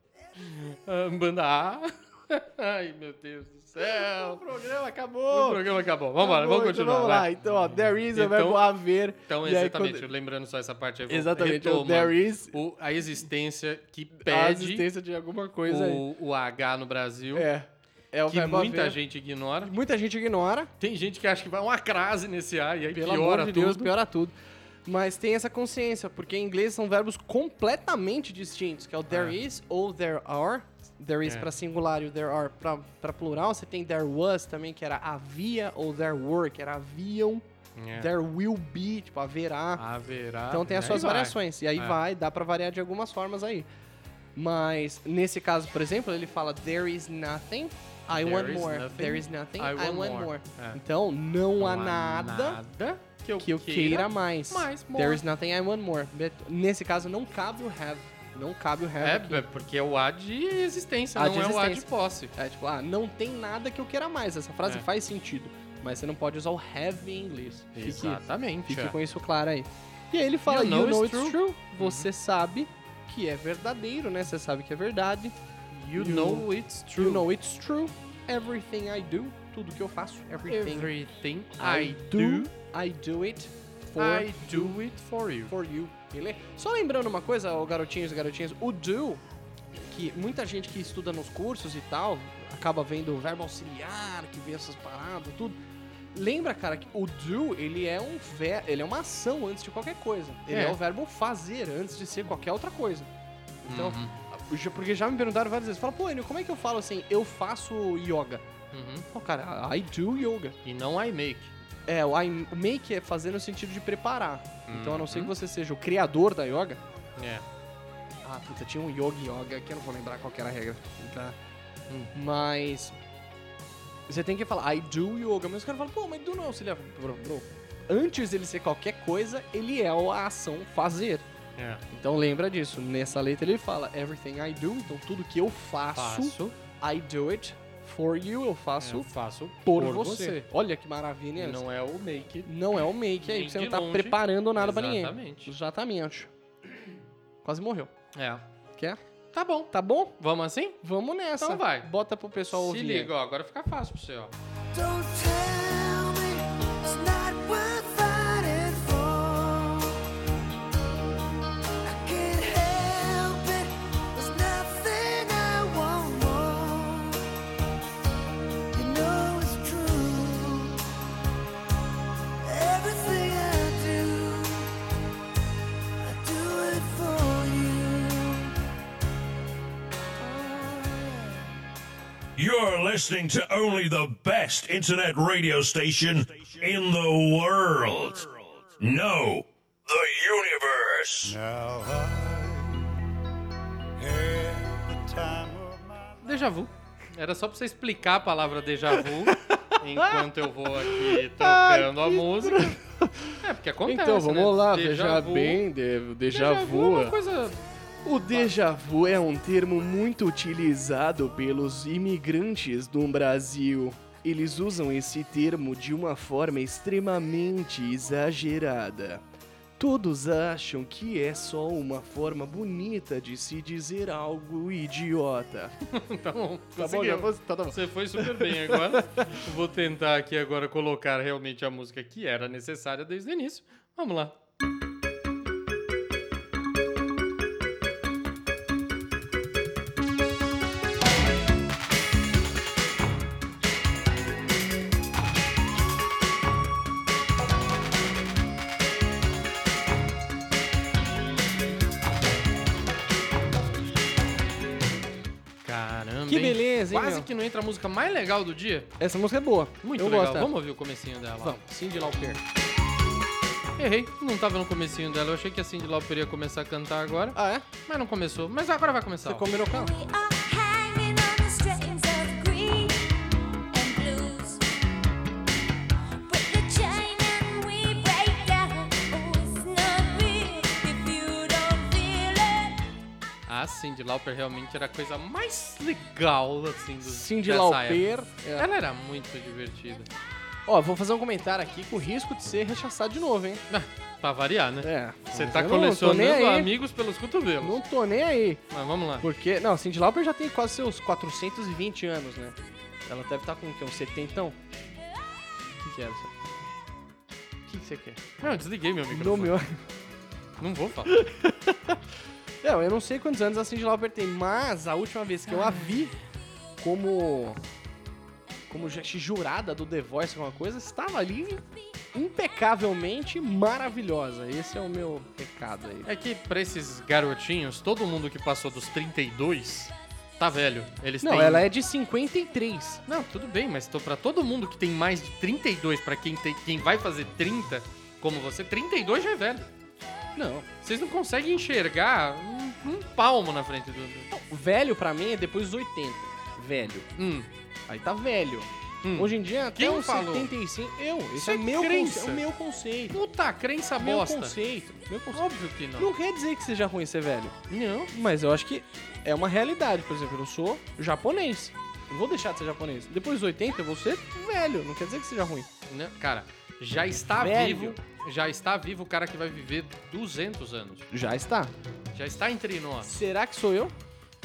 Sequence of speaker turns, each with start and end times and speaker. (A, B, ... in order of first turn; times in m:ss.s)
0:00.4-0:04.4 A
0:03.8-0:10.1 B
0:05.3-0:14.9 A
0:11.1-0:12.6 B
0:14.2-0:16.0 B
0:15.7-0:17.5 A
0:17.3-0:19.0 B
0:18.3-0:19.7 A
0:19.6-0:20.7 B
0:20.8-0:23.9 A
0:22.9-0:39.8 B
0:29.1-0:29.4 A
0:37.8-0:38.1 A
0:39.8-0:42.0 A
0:40.5-0:43.7 B
0:44.4-0:52.6 B
0:48.1-0:50.8 A
0:51.6-0:55.2 A
0:53.4-0:59.4 B
0:59.0-1:02.3 A
1:01.2-1:15.4 B
1:07.8-1:09.0 A
1:10.5-1:12.1 A
1:15.7-1:17.3 A
1:15.9-1:20.9 B
1:20.5-1:22.5 A
1:21.6-1:24.8 B
1:24.0-1:25.5 A
1:25.5-1:29.2 B
1:29.7-1:35.6 B
1:36.1-1:43.1 B
1:40.5-1:40.8 A
1:43.6-1:48.4 B
1:43.6-1:44.2 A
1:48.7-1:49.1 A
1:49.1-1:50.6 B
1:50.6-1:51.5 A
1:51.9-1:56.8 B
1:54.7-1:55.3 A
1:57.2-1:57.5 A
1:58.2-2:01.4 B
2:02.1-2:03.0 B
2:04.1-2:11.3 B
2:11.6-2:11.8 A
2:11.9-2:19.1 B
2:15.9-2:16.6 A
2:18.8-2:20.4 A
2:19.6-2:21.6 B
2:21.4-2:22.5 A
2:22.4-2:26.3 B
2:23.2-2:25.5 A
2:27.4-2:27.9 B
2:28.2-2:28.4 A
2:29.3-2:30.8 A
2:29.7-2:30.2 B
2:30.8-2:33.1 B
2:31.4-2:31.9 A
2:32.5-2:34.3 A
2:34.7-2:40.0 C
2:41.8-2:47.2 C
2:48.7-2:50.8 C
2:52.4-2:54.7 C
2:56.0-2:58.5 C
3:00.2-3:01.4 C
3:02.4-3:11.4 D
3:11.2-3:13.0 E
3:14.0-3:16.5 E
3:16.2-3:22.8 A
3:19.2-3:27.2 B
3:23.4-3:25.6 A
3:26.3-3:27.6 A
3:28.0-3:39.2 B
3:39.8-3:45.8 B
3:45.9-3:54.4 A
3:46.8-3:49.4 B
4:15.6-4:18.9 A
4:16.3-4:17.3 B
4:19.0-4:20.5 B
4:19.8-4:21.6 A
4:21.4-4:22.4 B
4:23.8-4:29.5 A
4:27.4-4:27.7 B
4:29.2-4:29.9 B
4:29.6-4:33.0 F
4:33.7-4:34.6 F
4:36.3-4:42.8 F
4:43.5-4:50.1 A
4:47.0-4:48.7 B
4:50.7-4:53.6 B
4:53.7-4:57.8 A
4:54.8-4:56.7 B
4:57.6-4:58.6 B
4:58.7-4:59.3 A
4:59.2-5:04.6 B
5:05.8-5:06.3 B
5:07.7-5:08.2 B
5:08.4-5:09.6 A
5:09.1-5:09.8 B
5:10.6-5:11.2 A
5:11.1-5:12.0 B
5:12.6-5:16.2 B
5:16.8-5:17.6 B
5:18.7-5:26.1 B
5:26.0-5:31.7 A
5:31.2-5:33.0 B
5:33.1-5:39.7 A
5:40.4-5:40.7 B
5:40.8-5:44.3 A
5:44.3-5:47.1 B
5:47.1-5:47.5 A
5:47.9-5:53.2 B
5:49.0-5:50.5 A
5:51.4-5:52.4 A
5:53.1-5:54.6 A
5:54.0-5:57.6 B
5:55.3-5:56.1 A
5:57.7-5:58.1 A
5:58.1-6:05.7 B
6:05.9-6:11.1 A
6:07.3-6:08.0 B
6:11.1-6:11.7 B
6:12.1-6:13.2 A
6:13.0-6:14.0 B